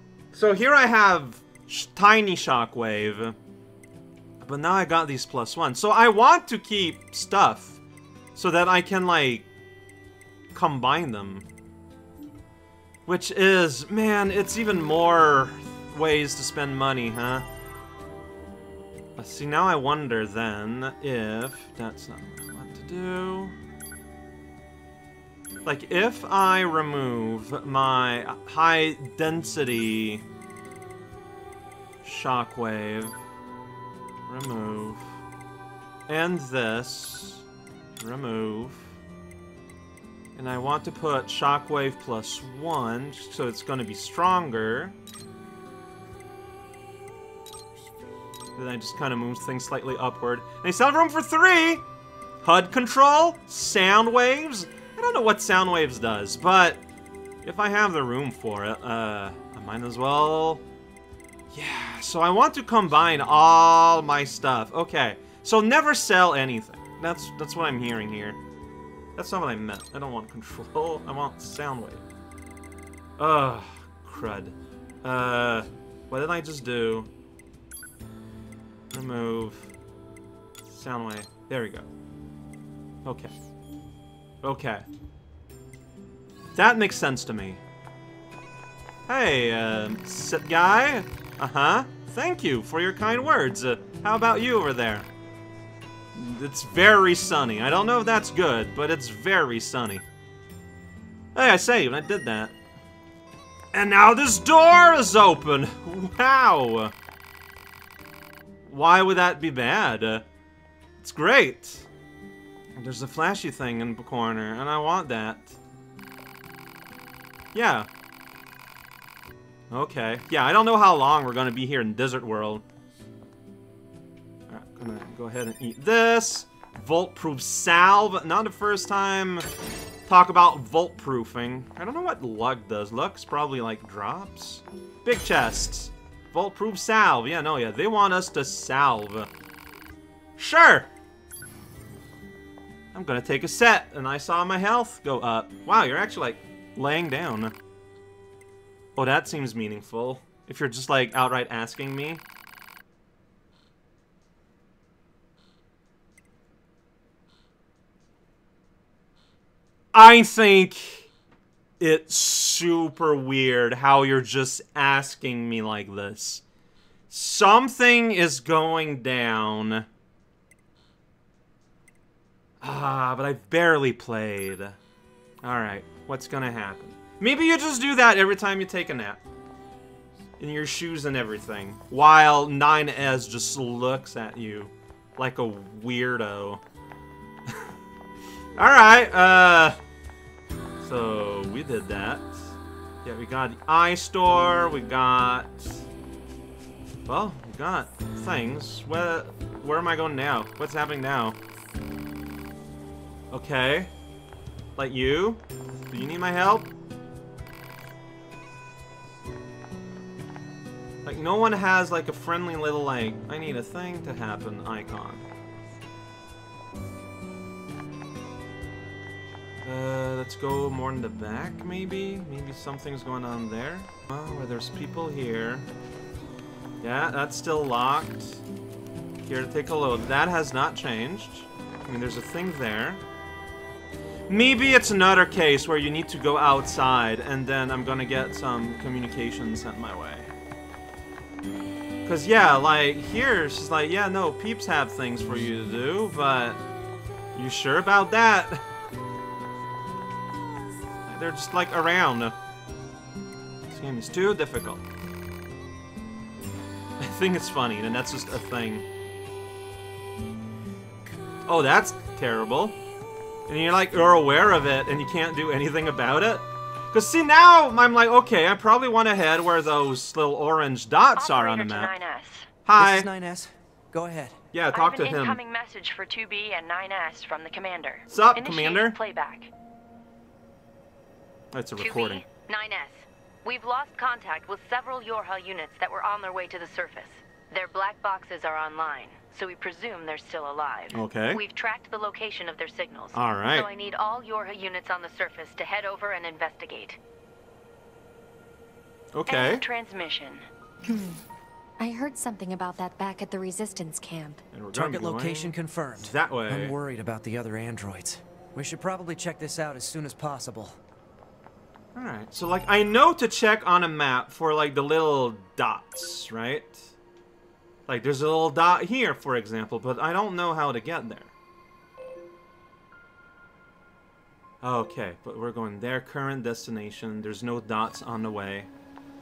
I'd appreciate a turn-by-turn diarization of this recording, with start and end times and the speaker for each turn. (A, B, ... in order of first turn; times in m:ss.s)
0:00.3-0:03.4 A
0:04.4-0:07.8 A
0:08.4-0:09.5 A
0:10.5-0:11.5 A
0:13.1-0:17.5 A
0:19.2-0:23.6 A
0:25.6-0:30.2 A
0:32.0-0:33.2 A
0:34.3-0:35.1 A
0:36.1-0:37.4 A
0:38.0-0:38.9 A
0:40.4-0:45.0 A
0:48.6-0:51.8 A
0:52.4-0:56.8 A
0:57.4-1:00.6 A
1:01.5-1:08.4 A
1:09.2-1:12.1 A
1:13.2-1:17.1 A
1:18.9-1:19.7 A
1:20.6-1:21.9 A
1:23.0-1:23.4 A
1:24.4-1:24.9 A
1:26.6-1:27.6 A
1:29.1-1:35.1 A
1:36.1-1:40.0 A
1:41.4-1:42.5 A
1:43.7-1:46.9 A
1:48.6-1:50.3 A
1:51.0-1:51.9 A
1:52.8-1:55.6 A
1:57.5-1:57.9 A
1:59.7-2:02.6 A
2:04.5-2:09.5 A
2:10.1-2:19.3 A
2:20.4-2:20.9 A
2:22.9-2:27.5 A
2:29.0-2:32.2 A
2:39.9-2:41.1 A
2:41.8-2:46.4 A
2:47.1-2:49.9 A
2:52.6-2:54.8 A
2:55.4-2:59.2 A
3:00.4-3:06.6 A
3:08.6-3:09.8 A
3:10.8-3:12.4 A
3:13.0-3:15.8 A
3:17.1-3:21.4 A
3:23.3-3:23.9 A
3:24.8-3:26.7 A
3:31.0-3:35.3 A
3:39.6-3:45.7 A
3:46.8-3:48.4 A
3:49.2-3:53.0 A
3:54.3-4:00.3 A
4:02.0-4:06.6 A
4:07.3-4:08.6 A
4:11.1-4:12.4 A
4:13.7-4:14.8 A
4:17.0-4:18.9 A
4:21.5-4:22.8 A
4:23.5-4:31.9 A
4:31.2-4:32.5 B
4:32.7-4:33.1 A
4:32.8-4:34.4 C
4:34.5-4:35.4 A
4:34.7-4:39.5 B
4:38.1-4:39.0 A
4:41.5-4:42.2 A
4:41.8-4:57.0 B
4:50.9-4:51.4 A
4:53.1-4:53.7 A
4:59.1-4:59.6 A
4:59.3-5:00.5 B
5:00.9-5:01.2 D
5:01.8-5:04.4 D
5:04.5-5:06.8 A
5:04.7-5:10.8 C
5:12.0-5:16.9 A
5:17.9-5:21.3 A
5:24.6-5:28.7 A